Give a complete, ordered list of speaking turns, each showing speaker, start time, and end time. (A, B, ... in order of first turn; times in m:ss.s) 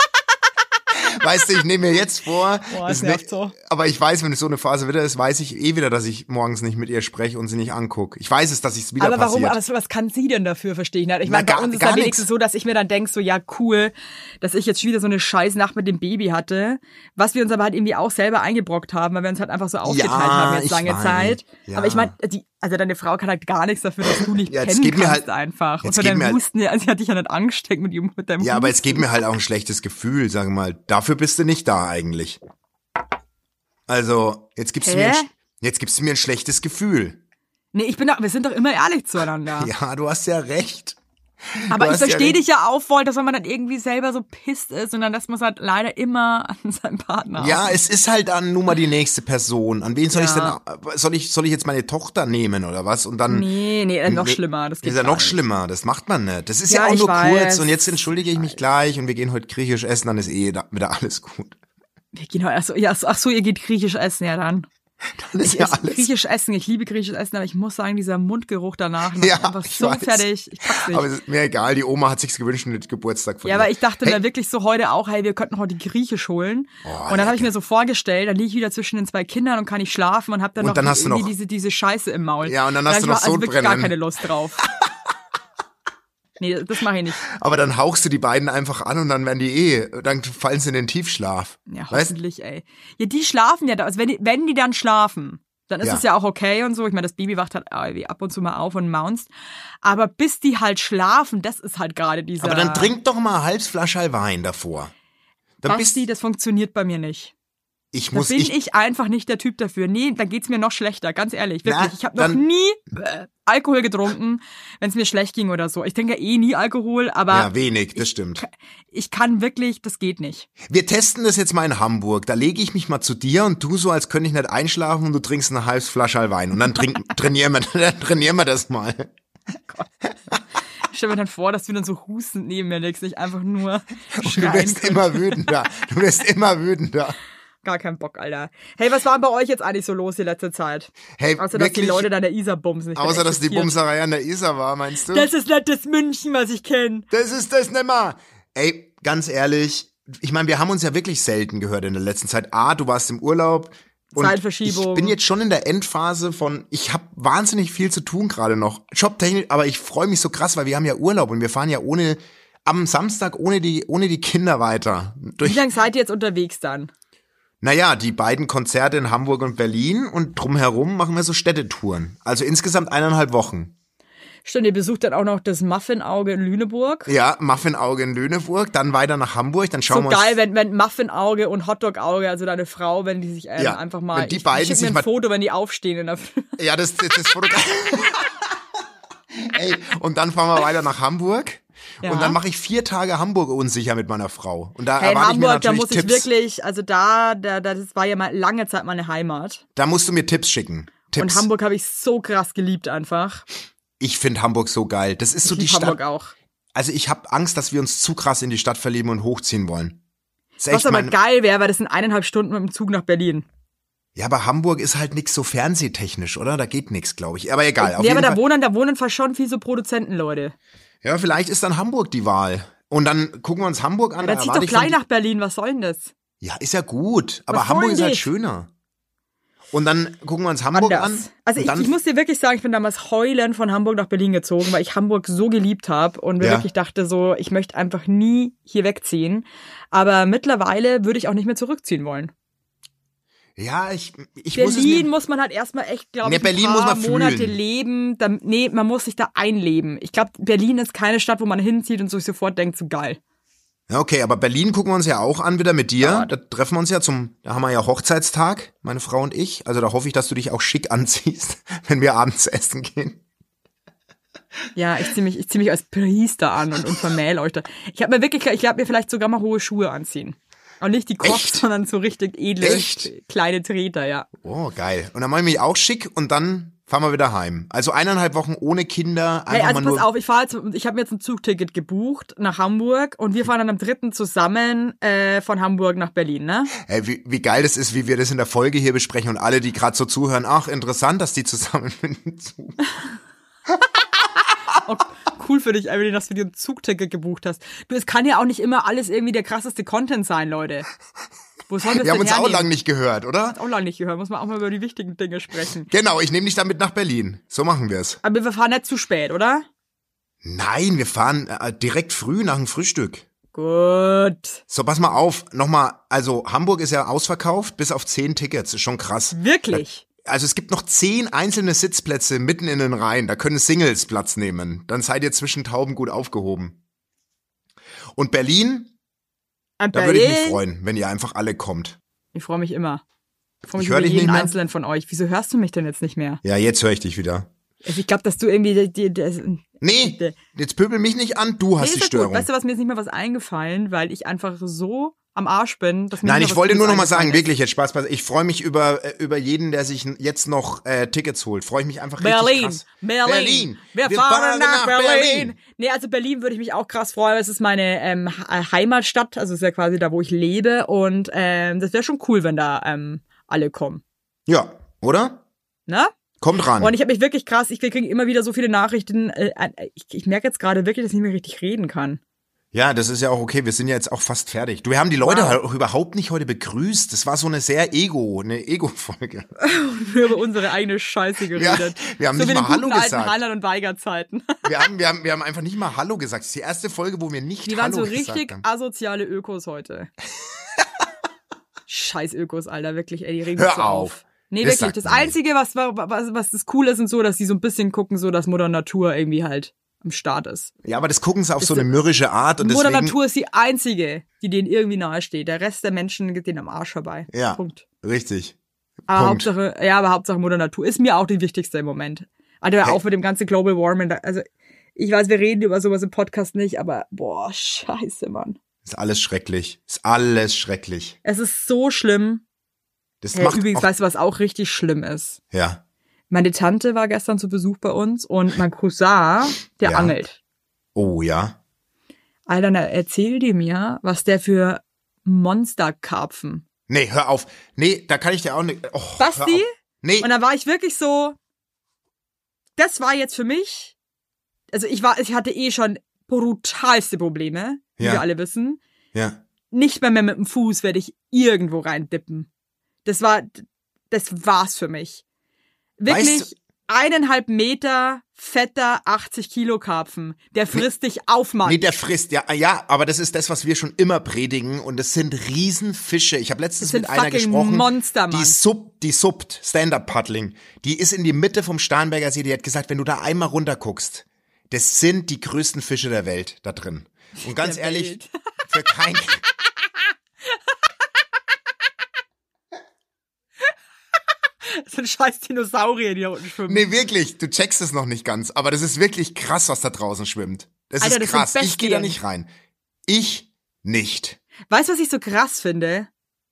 0:00.9-0:09.6 A
0:02.7-0:03.5 B
0:09.0-0:29.0 B
0:11.2-0:12.3 A
0:19.8-0:22.1 A
0:24.5-0:25.2 A
0:25.8-0:26.4 A
0:28.4-0:32.4 A
0:33.9-0:37.2 A
0:34.8-0:35.3 B
0:37.7-0:39.7 B
0:39.6-0:41.0 A
0:41.5-0:42.4 A
0:41.7-0:47.8 B
0:47.4-0:53.5 A
0:50.1-0:50.6 B
0:53.3-0:55.4 B
0:54.0-1:01.6 A
0:56.7-0:58.6 B
1:02.1-1:04.7 B
1:05.2-1:06.1 A
1:05.4-1:11.1 B
1:09.2-1:14.2 A
1:13.4-1:24.6 B
1:16.8-1:17.5 A
1:20.6-1:21.3 A
1:22.4-1:24.0 A
1:26.4-1:27.2 B
1:27.2-1:32.1 A
1:31.7-1:39.3 B
1:39.8-1:42.9 B
1:42.4-1:44.9 A
1:45.6-1:46.0 A
1:45.6-1:47.3 B
1:47.9-1:48.5 A
1:48.1-2:00.5 B
1:51.6-1:52.4 A
1:57.3-1:58.4 A
2:00.6-2:09.1 A
2:10.8-2:15.5 B
2:14.1-2:17.2 A
2:17.6-2:23.7 B
2:21.2-2:22.1 A
2:23.0-2:25.3 A
2:25.1-2:27.1 B
2:27.1-2:45.6 A
2:34.2-2:35.2 B
2:45.4-2:46.9 B
2:47.6-2:53.7 A
2:54.4-2:57.1 B
2:57.1-3:00.4 A
2:59.9-3:06.6 B
3:03.6-3:05.1 A
3:06.6-3:08.2 A
3:09.4-3:16.3 A
3:12.0-3:12.4 B
3:15.0-3:19.6 B
3:19.8-3:21.5 A
3:21.2-3:23.4 B
3:24.0-3:26.0 A
3:25.4-3:26.3 B
3:26.7-3:30.0 A
3:30.6-3:31.1 A
3:30.7-3:33.4 B
3:34.1-3:38.4 A
3:37.8-3:40.5 B
3:41.0-3:45.0 A
3:44.2-3:46.1 B
3:46.4-3:48.7 A
3:47.5-3:48.3 B
3:49.7-3:51.9 A
3:50.7-4:02.3 B
3:56.4-3:56.7 A
4:03.6-4:05.1 A
4:04.5-4:13.2 B
4:06.2-4:07.6 A
4:13.9-4:23.2 A
4:16.0-4:16.3 B
4:24.8-4:34.3 B
4:31.2-4:31.6 A
4:32.6-4:33.1 A
4:34.4-4:40.0 A
4:39.5-4:46.7 B
4:46.7-4:52.8 A
4:54.8-5:00.9 B
5:01.7-5:02.7 B
5:02.0-5:03.6 A
5:03.5-5:05.9 B
5:05.9-5:08.2 A
5:08.2-5:09.6 B
5:10.4-5:13.2 A
5:13.5-5:14.6 B
5:14.7-5:26.8 A
5:19.3-5:20.0 B
5:28.1-5:28.9 A
5:29.8-5:30.6 B
5:29.9-5:32.0 A
5:32.3-5:33.0 B
5:33.6-5:36.4 B
5:33.7-5:34.6 A
5:36.4-5:37.5 A
5:37.8-5:40.4 B
5:39.8-5:42.5 A
5:41.8-5:47.4 B
5:46.2-5:55.6 A
5:52.2-6:04.0 B
6:04.5-6:05.4 A
6:05.9-6:06.1 B
6:06.4-6:06.9 A
6:06.8-6:12.2 B
6:12.7-6:19.5 A
6:15.2-6:15.6 B
6:19.6-6:24.7 B
6:21.5-6:23.4 A
6:24.6-6:28.6 A
6:27.6-6:30.1 B
6:31.9-6:40.7 B
6:33.6-6:35.3 A
6:40.8-6:43.2 A
6:41.6-6:41.9 B
6:42.6-6:47.8 B
6:47.3-6:48.6 A
6:49.1-6:49.5 A
6:49.1-6:58.6 B
6:58.8-7:01.2 A
7:01.2-7:02.4 B
7:03.2-7:03.9 A
7:03.3-7:05.4 B
7:05.5-7:05.8 A
7:06.3-7:10.4 B
7:09.8-7:10.1 A
7:10.9-7:11.6 A
7:12.5-7:16.6 B
7:16.9-7:20.3 A
7:19.2-7:21.4 B
7:22.8-7:23.9 B
7:24.7-7:28.8 B
7:28.0-7:28.2 A
7:29.1-7:29.4 A
7:29.7-7:32.5 B
7:33.0-7:35.2 B
7:36.0-7:41.8 B
7:36.1-7:36.5 A
7:41.6-7:58.2 A
7:46.8-7:48.6 B
7:57.5-7:58.3 B
7:58.7-7:59.4 A
8:04.6-8:06.9 B
8:06.7-8:12.5 A
8:11.0-8:12.2 B
8:13.1-8:14.4 A
8:14.7-8:16.1 B